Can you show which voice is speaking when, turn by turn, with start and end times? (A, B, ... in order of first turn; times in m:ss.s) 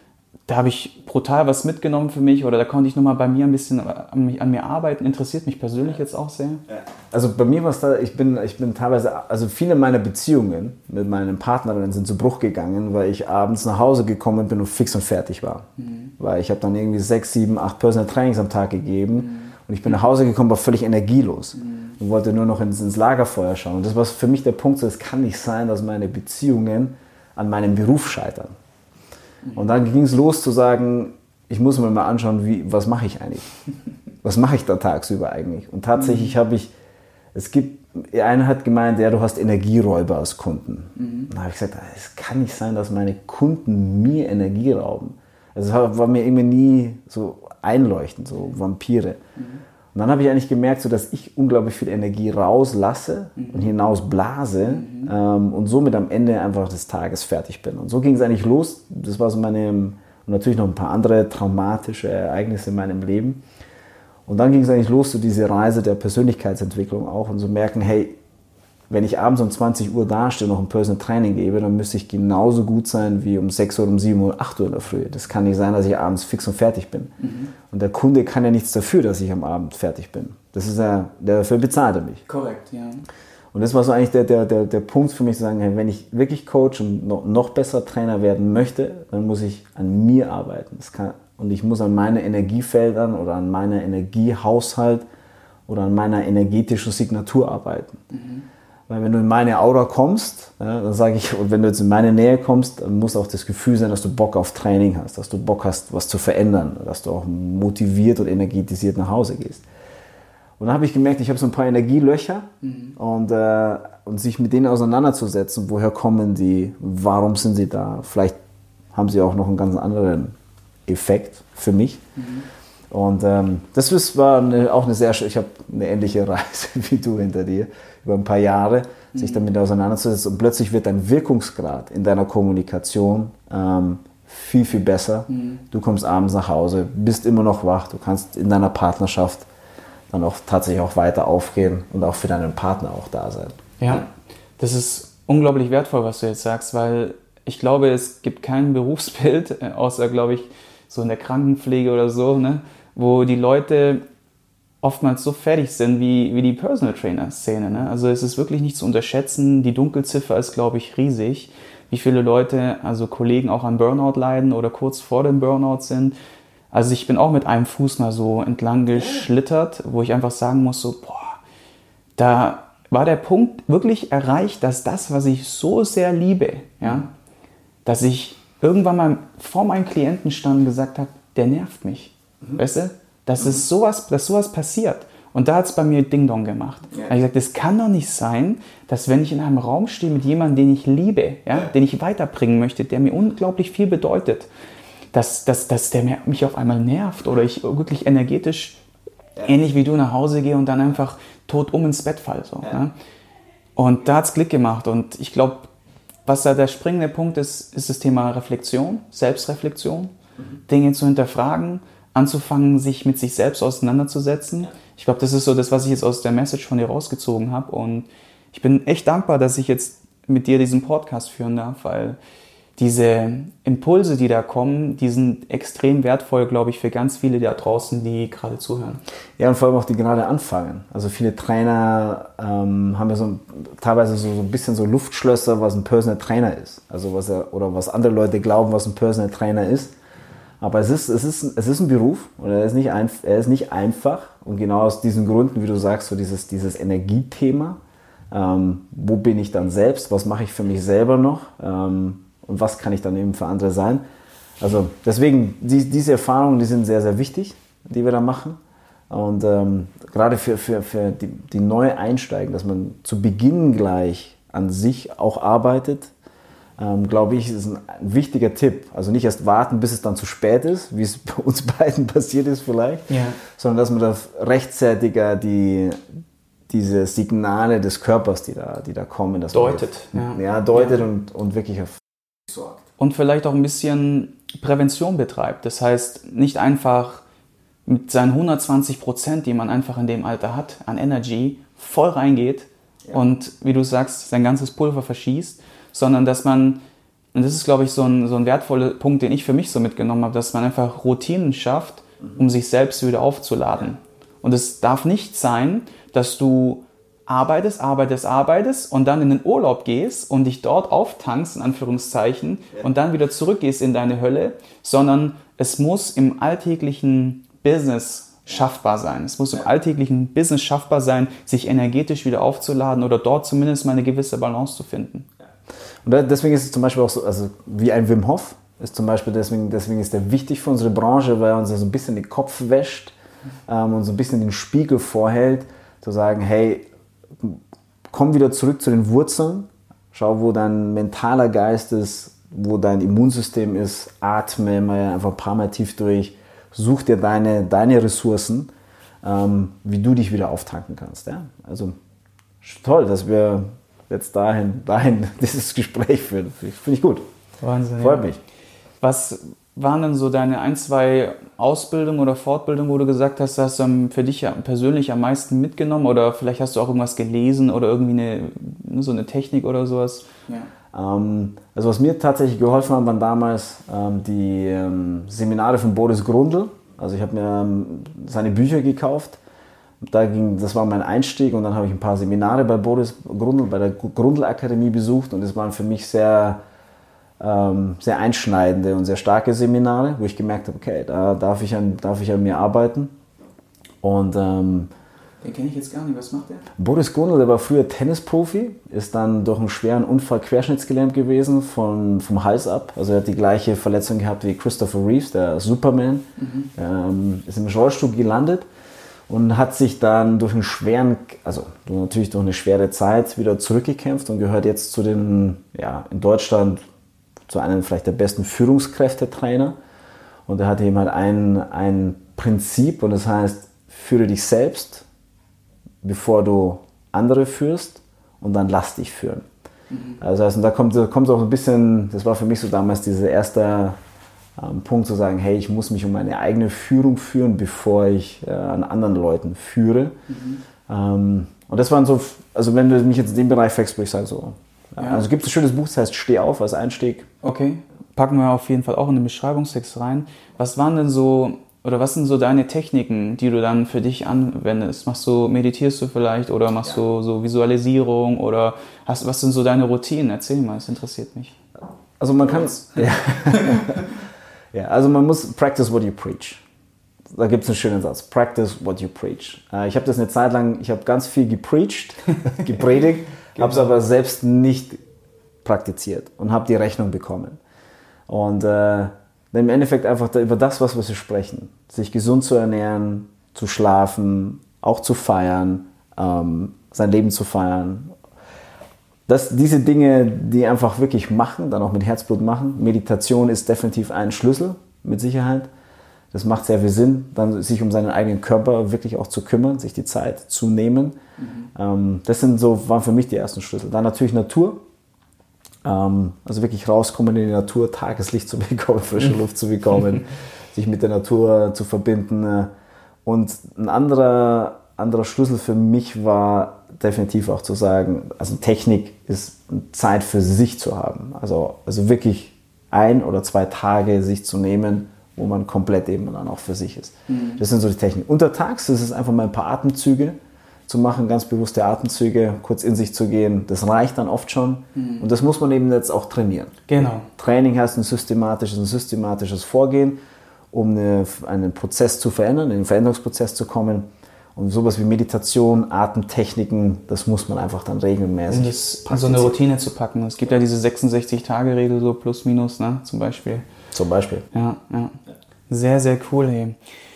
0:00.5-0:06.6 A
0:06.7-0:15.7 B
0:16.2-0:28.6 B
0:29.5-0:33.5 B
0:34.2-0:36.7 B
0:37.3-0:49.2 B
0:41.0-0:41.3 A
0:49.9-1:03.4 B
0:54.8-0:55.1 A
1:04.3-1:08.2 B
1:08.9-1:17.1 B
1:17.2-1:17.5 A
1:17.7-1:22.2 B
1:22.3-1:23.0 A
1:23.5-1:35.0 B
1:35.7-1:38.0 B
1:38.1-1:38.4 A
1:38.9-1:49.6 B
1:50.6-1:58.4 B
1:58.9-2:00.3 B
2:00.9-2:02.0 B
2:02.9-2:19.5 B
2:20.1-2:23.6 B
2:23.8-2:24.1 A
2:24.6-2:34.0 A
2:34.8-2:46.2 A
2:46.7-2:51.4 A
2:52.2-2:57.1 A
2:57.8-3:14.5 A
3:15.1-3:18.8 A
3:19.4-3:22.9 A
3:23.8-3:25.7 A
3:26.2-3:30.1 A
3:30.7-3:42.2 A
3:42.8-3:49.0 A
3:49.4-4:00.0 B
4:00.6-4:07.8 B
4:08.3-4:14.0 B
4:14.6-4:18.6 B
4:19.1-4:26.1 B
4:26.8-4:36.0 B
4:33.1-4:33.4 A
4:36.7-4:42.0 B
4:39.5-4:41.0 A
4:43.0-4:47.2 A
4:47.9-4:56.8 A
4:57.3-5:25.3 A
5:26.0-5:33.2 B
5:33.7-5:36.9 B
5:37.4-5:48.7 B
5:49.2-5:52.0 B
5:52.6-5:57.2 B
5:57.6-5:58.3 A
5:58.0-5:58.4 B
5:59.0-6:10.7 A
6:10.9-6:19.4 B
6:20.0-6:26.6 B
6:27.4-6:33.1 B
6:34.0-6:34.9 B
6:35.4-6:36.7 A
6:36.8-6:48.7 B
6:46.4-6:46.7 A
6:49.3-6:56.8 B
6:57.5-6:59.8 B
7:00.5-7:05.0 B
7:06.0-7:09.5 B
7:09.9-7:10.2 A
7:10.2-7:14.0 B
7:14.6-7:20.1 B
7:20.3-7:20.6 A
7:20.9-7:27.3 B
7:25.0-7:25.2 A
7:27.4-7:41.5 A
7:42.2-7:44.2 B
7:42.5-7:44.0 A
7:44.7-7:46.6 B
7:47.3-7:55.0 B
7:55.6-7:57.6 B
7:58.3-8:08.1 B
8:09.3-8:15.7 B
8:16.3-8:21.2 B
8:21.8-8:24.8 B
8:25.8-8:32.7 B
8:33.2-8:50.4 B
8:47.3-8:47.6 A
8:50.9-9:00.2 B
8:55.0-8:55.2 A
8:56.9-8:57.3 A
9:00.7-9:09.6 B
9:08.5-9:13.6 A
9:13.9-9:14.4 B
9:14.5-9:15.2 A
9:15.7-9:16.8 A